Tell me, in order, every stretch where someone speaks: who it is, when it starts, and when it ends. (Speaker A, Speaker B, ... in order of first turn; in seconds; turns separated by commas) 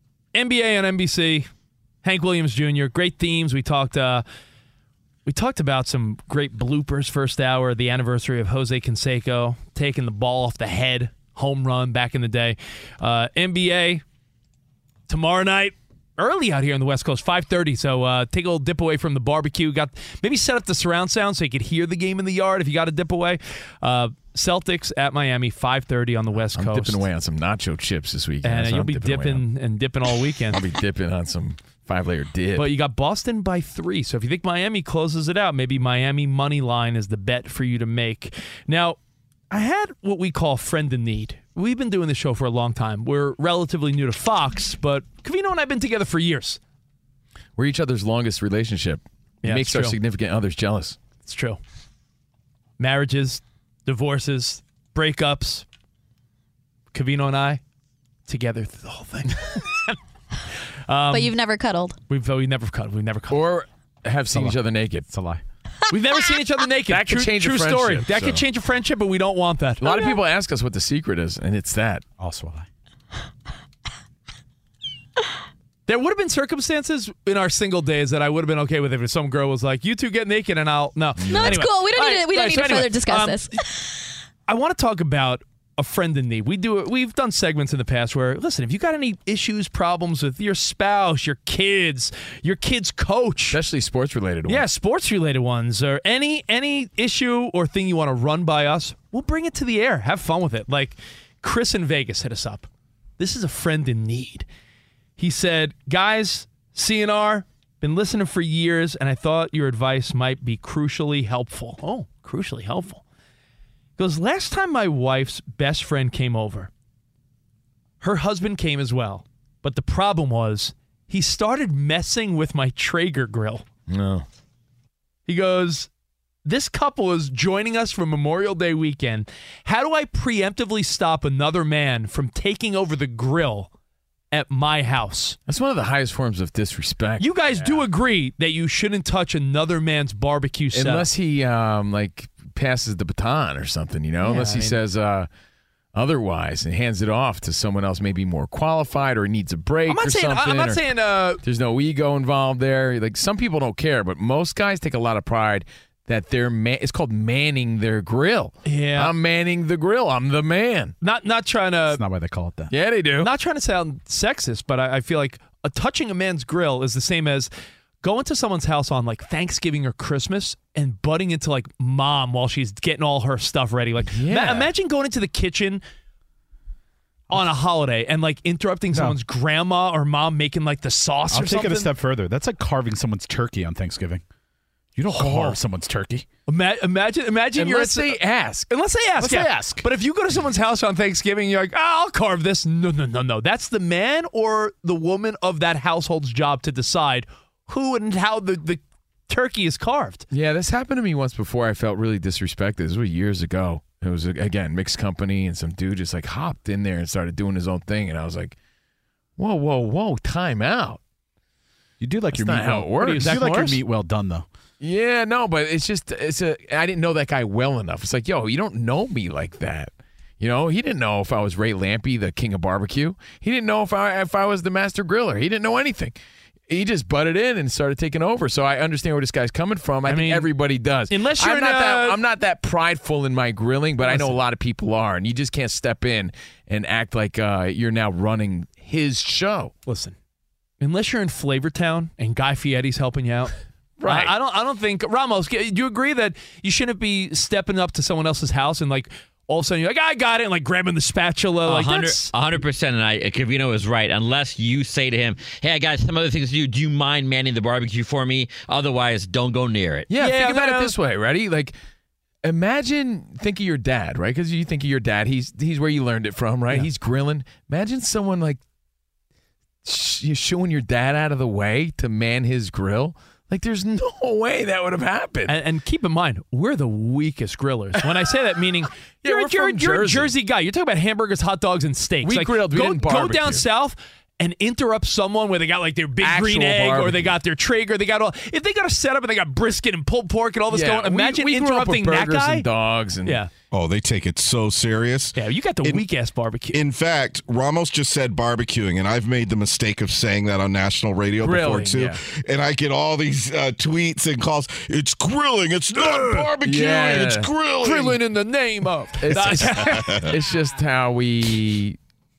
Speaker A: 0.3-1.5, Speaker A: 2.0-4.2, Speaker A: 5.3-14.0, Speaker A: 15.1-27.0, Speaker B: 26.5-29.4, Speaker A: 28.4-30.6, Speaker B: 30.5-32.7, Speaker A: 32.5-39.0, Speaker A: 39.5-46.6, Speaker B: 47.6-51.0, Speaker A: 49.4-50.0, Speaker A: 51.2-51.6, Speaker A: 52.8-55.6, Speaker A: 56.9-57.6, Speaker A: 58.3-60.0, Speaker A: 60.9-61.3, Speaker C: 61.1-62.0, Speaker A: 62.1-63.4, Speaker B: 63.3-65.1, Speaker D: 64.3-64.6, Speaker D: 65.1-65.4, Speaker A: 65.9-70.1, Speaker B: 66.9-68.4, Speaker B: 69.8-72.0, Speaker D: 72.2-72.7, Speaker A: 75.9-83.6, Speaker C: 81.3-83.8, Speaker A: 84.5-93.6, Speaker B: 93.5-94.7, Speaker A: 94.5-102.7, Speaker A: 103.2-104.5, Speaker A: 105.2-113.0, Speaker A: 114.0-116.7, Speaker A: 118.0-123.7, Speaker B: 123.9-124.2, Speaker A: 125.3-125.9, Speaker A: 126.5-133.7, Speaker A: 134.3-135.4, Speaker B: 135.5-137.8, Speaker A: 137.2-141.1, Speaker B: 140.7-145.3, Speaker A: 144.2-144.8, Speaker B: 145.9-150.8, Speaker A: 149.9-151.4, Speaker B: 151.4-160.9, Speaker A: 158.7-159.1, Speaker A: 161.0-162.0, Speaker D: 161.9-162.7, Speaker B: 162.7-163.3, Speaker A: 163.2-167.5, Speaker A: 168.0-175.8, Speaker B: 174.1-174.7, Speaker A: 177.3-181.9, Speaker D: 178.9-179.2, Speaker D: 181.3-184.2, Speaker D: 185.0-186.2, Speaker B: 185.2-185.6, Speaker A: 186.5-200.3, Speaker B: 187.6-188.7, Speaker D: 189.2-189.8, Speaker B: 200.3-208.6, Speaker B: 209.4-211.0, Speaker D: 212.0-214.5, Speaker B: 212.3-213.3, Speaker A: 213.0-213.8, Speaker B: 214.8-226.2, Speaker B: 226.7-239.7, Speaker A: 230.1-230.5, Speaker A: 231.1-232.2, Speaker A: 234.0-234.4, Speaker A: 239.9-240.2, Speaker A: 240.8-243.5, Speaker B: 244.0-244.3, Speaker A: 244.1-252.3, Speaker E: 251.7-260.1, Speaker B: 260.1-261.8, Speaker A: 260.2-260.9, Speaker B: 262.4-268.6, Speaker B: 269.8-275.6, Speaker A: 275.5-292.7, Speaker B: 279.2-280.3, Speaker B: 282.2-283.6, Speaker B: 286.2-287.3, Speaker B: 290.7-293.4, Speaker A: 293.2-293.5, Speaker F: 293.7-296.0, Speaker A: 295.4-296.8, Speaker F: 296.7-308.2, Speaker B: 301.4-302.2, Speaker A: 306.1-306.4, Speaker B: 306.6-307.5, Speaker A: 307.8-310.3, Speaker B: 309.2-312.0